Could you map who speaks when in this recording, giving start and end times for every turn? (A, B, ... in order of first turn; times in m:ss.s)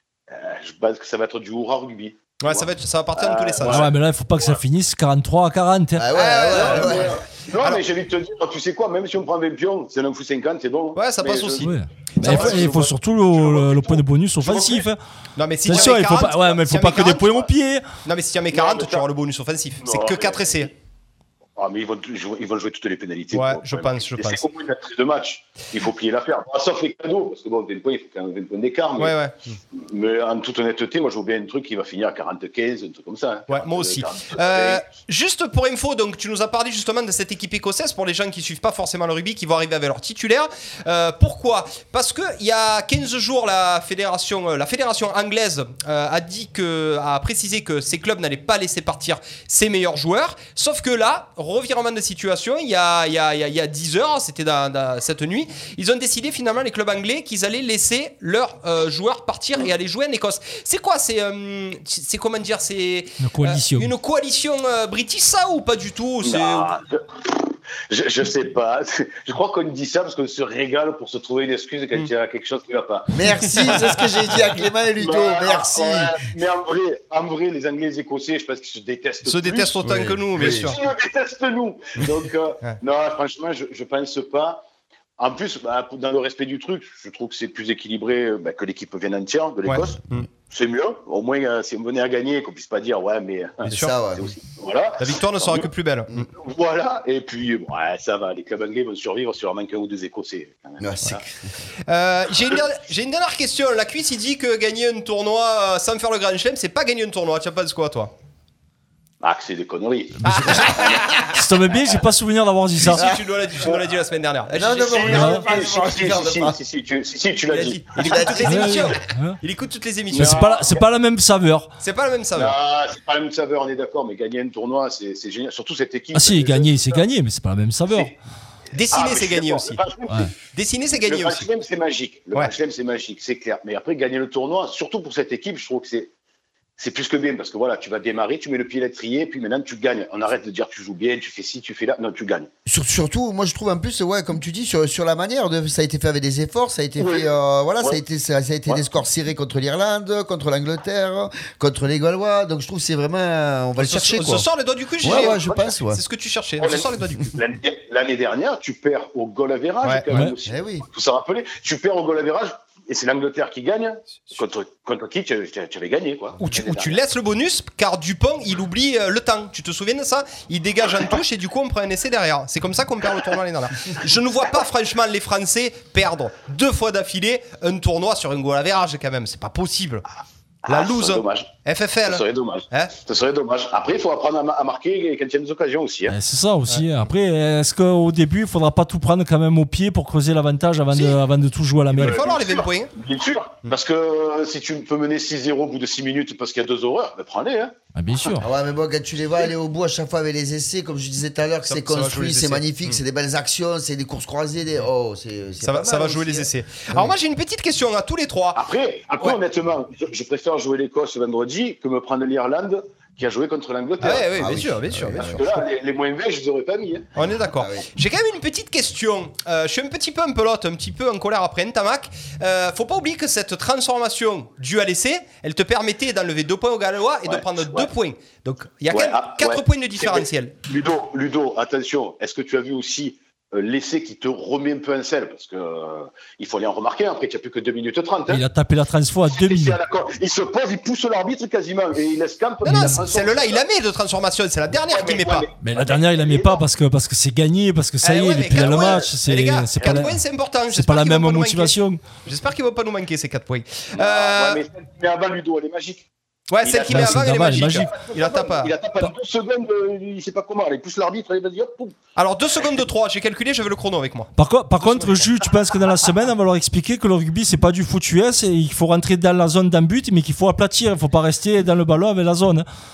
0:00.3-0:04.6 A
0:02.4-0:03.9 B
0:03.6-0:06.1 C
0:06.0-0:07.2 D
0:06.1-0:07.8 B
0:06.5-0:14.8 A
0:11.0-0:11.7 B
0:11.6-0:15.0 C
0:12.2-0:12.7 B
0:15.4-0:17.5 B
0:15.6-0:17.8 C
0:15.7-0:16.0 A
0:18.0-0:20.7 B
0:18.5-0:19.0 A
0:19.8-0:20.7 A
0:21.6-0:29.1 A
0:23.3-0:24.4 B
0:29.0-0:29.6 B
0:29.7-0:34.8 A
0:33.5-1:06.7 B
1:03.2-1:03.9 C
1:06.2-1:14.0 A
1:13.1-1:16.2 D
1:15.0-1:24.6 A
1:19.2-1:20.8 B
1:19.9-1:20.7 D
1:25.2-1:35.7 A
1:29.6-1:30.3 B
1:33.6-1:33.9 B
1:33.6-1:34.3 D
1:35.0-1:36.3 B
1:36.3-1:41.2 A
1:40.8-1:41.3 D
1:41.9-1:48.1 B
1:49.2-1:51.0 A
1:50.2-1:50.7 C
1:50.2-1:51.3 B
1:51.2-1:53.0 C
1:52.8-1:55.3 B
1:54.5-1:56.6 D
1:54.6-1:58.8 A
1:55.1-1:55.4 C
1:57.5-2:00.5 B
1:58.0-1:58.8 D
1:58.4-1:59.4 C
2:00.1-2:00.8 A
2:00.1-2:01.7 C
2:01.8-2:02.5 B
2:02.4-2:07.0 A
2:06.1-2:08.1 C
2:08.7-2:09.8 B
2:08.9-2:10.3 A
2:10.5-2:11.4 B
2:11.0-2:16.1 A
2:16.8-2:22.5 A
2:22.6-2:34.5 D
2:27.0-2:27.3 A
2:33.8-2:37.4 B
2:35.0-2:36.0 D
2:35.0-2:35.7 A
2:36.6-2:47.0 A
2:40.4-2:40.9 D
2:46.4-3:00.0 B
3:00.6-3:01.5 A
3:00.7-3:02.9 B
3:02.1-3:06.1 A
3:06.1-3:12.2 C
3:11.9-3:17.7 A
3:12.0-3:12.9 B
3:17.9-3:18.5 C
3:18.4-3:27.1 D
3:21.7-3:23.0 B
3:25.6-3:28.6 B
3:28.5-3:37.1 A
3:34.0-3:35.4 B
3:34.3-3:35.4 D
3:37.2-3:50.5 B
3:37.6-3:37.8 D
3:47.3-3:47.9 A
3:48.9-3:58.4 A
3:58.3-3:59.8 C
3:59.3-4:03.6 A
4:02.6-4:03.0 C
4:02.6-4:05.5 B
4:04.7-4:06.6 A
4:05.6-4:10.2 C
4:08.0-4:14.6 B
4:08.7-4:09.0 A
4:10.7-4:12.0 C
4:13.9-4:16.1 A
4:16.5-4:18.7 B
4:16.6-4:22.0 A
4:16.9-4:17.9 C
4:22.2-4:24.3 B
4:24.4-4:32.6 C